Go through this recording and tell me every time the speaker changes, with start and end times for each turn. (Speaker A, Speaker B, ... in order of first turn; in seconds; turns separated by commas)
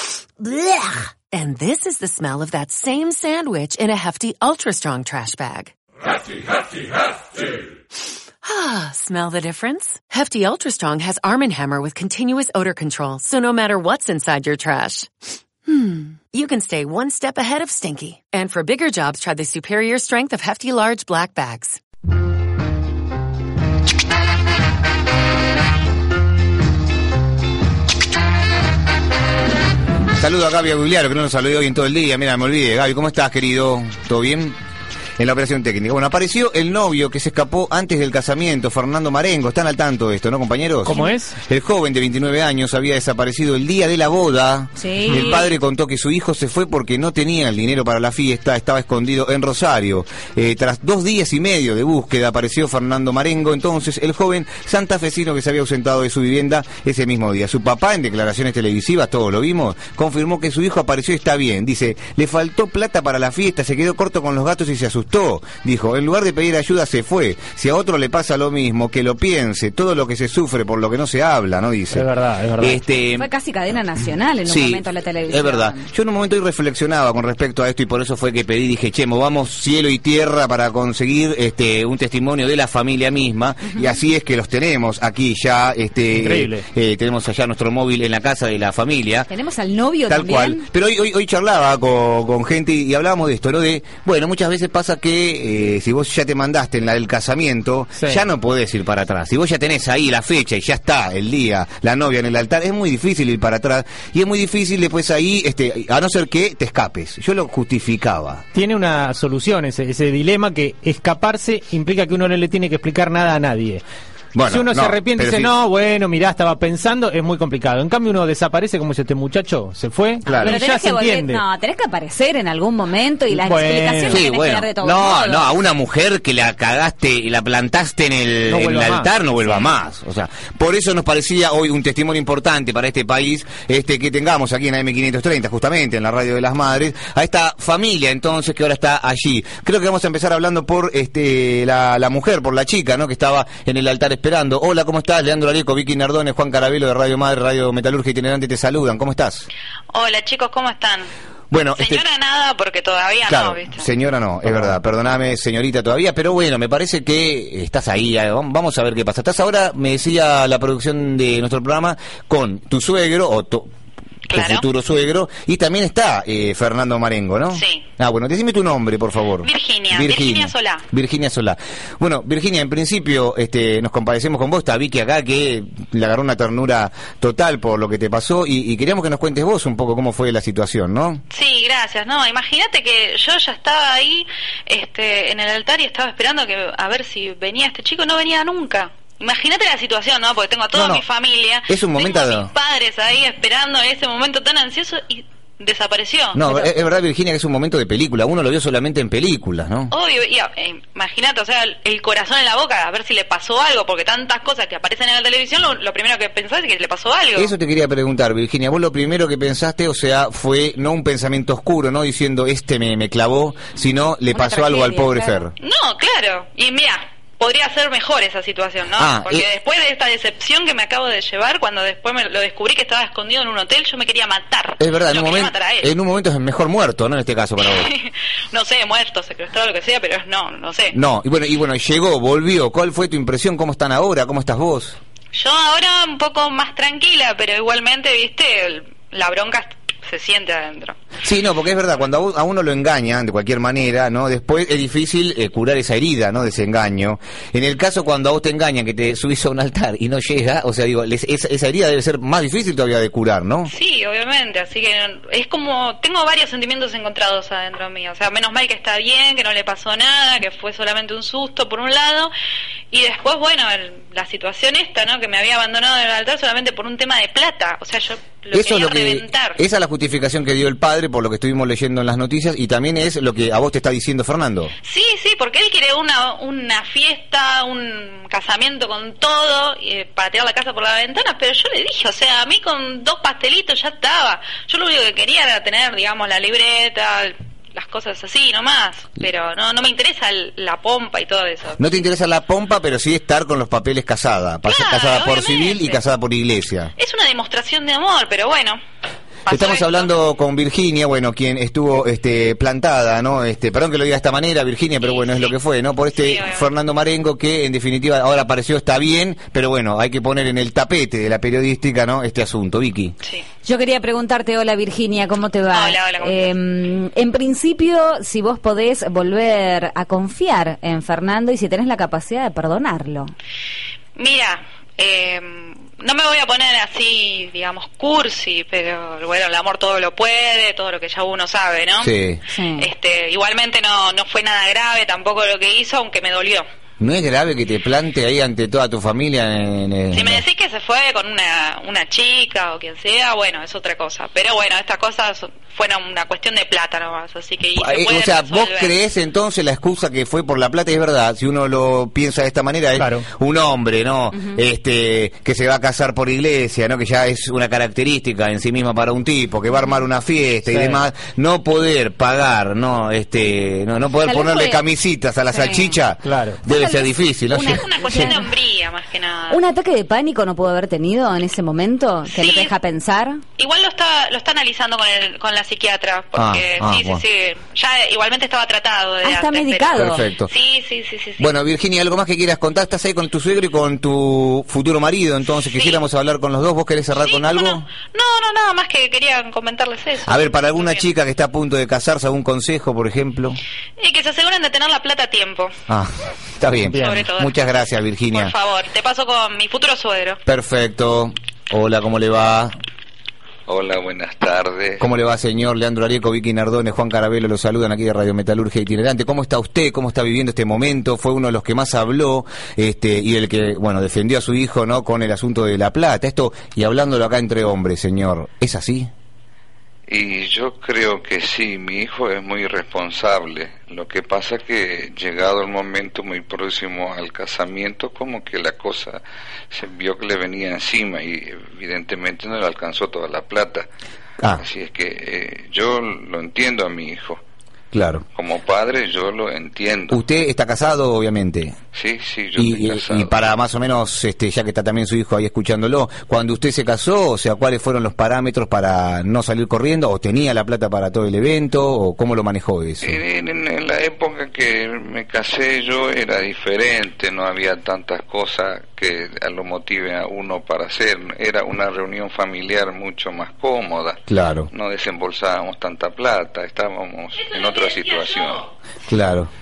Speaker A: 1.3-5.7, Speaker A: 8.4-21.8, Speaker B: 30.1-34.5, Speaker B: 35.2-73.3, Speaker C: 40.8-41.4, Speaker D: 44.8-45.5, Speaker C: 45.1-45.3, Speaker C: 71.9-72.8, Speaker D: 73.1-75.9, Speaker B: 74.5-89.3, Speaker D: 83.7-84.0, Speaker C: 86.1-86.6, Speaker D: 89.3-90.6, Speaker B: 90.1-108.4, Speaker C: 98.0-98.2, Speaker C: 108.5-113.8, Speaker B: 114.3-115.5, Speaker C: 114.4-121.4, Speaker D: 120.2-125.5, Speaker B: 120.3-120.6, Speaker C: 123.3-124.2, Speaker B: 124.1-149.5, Speaker C: 128.5-129.1, Speaker E: 149.9-151.1, Speaker B: 151.5-152.0, Speaker E: 151.7-153.9, Speaker B: 153.2-163.7, Speaker E: 164.3-164.7, Speaker B: 164.3-181.2, Speaker E: 167.5-167.8, Speaker E: 169.4-170.8, Speaker E: 181.3-196.4, Speaker B: 190.7-191.0, Speaker B: 191.7-192.5, Speaker B: 196.3-199.9, Speaker E: 199.9-207.5, Speaker B: 207.3-215.5, Speaker D: 214.3-215.5, Speaker E: 215.6-225.9, Speaker B: 218.9-219.4, Speaker B: 224.8-227.9, Speaker E: 227.6-230.9, Speaker B: 230.9-235.0, Speaker E: 235.3-241.0, Speaker B: 241.2-253.7, Speaker E: 253.7-262.3, Speaker E: 262.9-269.6, Speaker B: 268.5-274.7, Speaker E: 274.8-291.8, Speaker B: 291.8-296.9, Speaker E: 294.6-296.0, Speaker E: 297.0-298.8, Speaker E: 299.4-300.1, Speaker B: 299.5-313.1, Speaker E: 305.0-306.7, Speaker E: 313.2-313.5, Speaker D: 313.6-323.3, Speaker E: 315.7-316.5, Speaker E: 324.1-332.1, Speaker B: 332.0-332.4, Speaker D: 332.5-332.9, Speaker E: 332.8-336.7, Speaker B: 337.0-340.4, Speaker E: 340.1-348.9, Speaker B: 347.8-368.3, Speaker C: 353.0-353.2, Speaker C: 360.6-361.0, Speaker D: 364.2-364.8, Speaker D: 365.5-366.0, Speaker C: 366.2-366.6, Speaker D: 366.7-368.5, Speaker E: 367.5-369.6, Speaker D: 369.5-373.4, Speaker E: 372.3-372.7, Speaker E: 373.6-381.5, Speaker B: 376.3-377.2, Speaker D: 379.2-380.2, Speaker B: 379.9-380.5, Speaker B: 381.4-387.9, Speaker E: 385.6-386.0, Speaker E: 387.1-391.1, Speaker B: 390.2-393.6, Speaker E: 394.0-395.7, Speaker B: 395.9-398.5, Speaker C: 396.9-397.3, Speaker E: 397.0-397.7, Speaker E: 398.3-400.4, Speaker B: 400.4-402.8, Speaker F: 403.6-405.1, Speaker B: 405.0-419.1, Speaker F: 420.1-433.9, Speaker F: 434.6-437.4, Speaker B: 437.9-438.2, Speaker F: 438.3-440.2, Speaker B: 440.1-441.8, Speaker F: 441.9-443.3, Speaker B: 442.6-453.2, Speaker F: 453.0-468.6, Speaker B: 464.3-464.7, Speaker E: 467.4-468.5, Speaker B: 469.1-469.5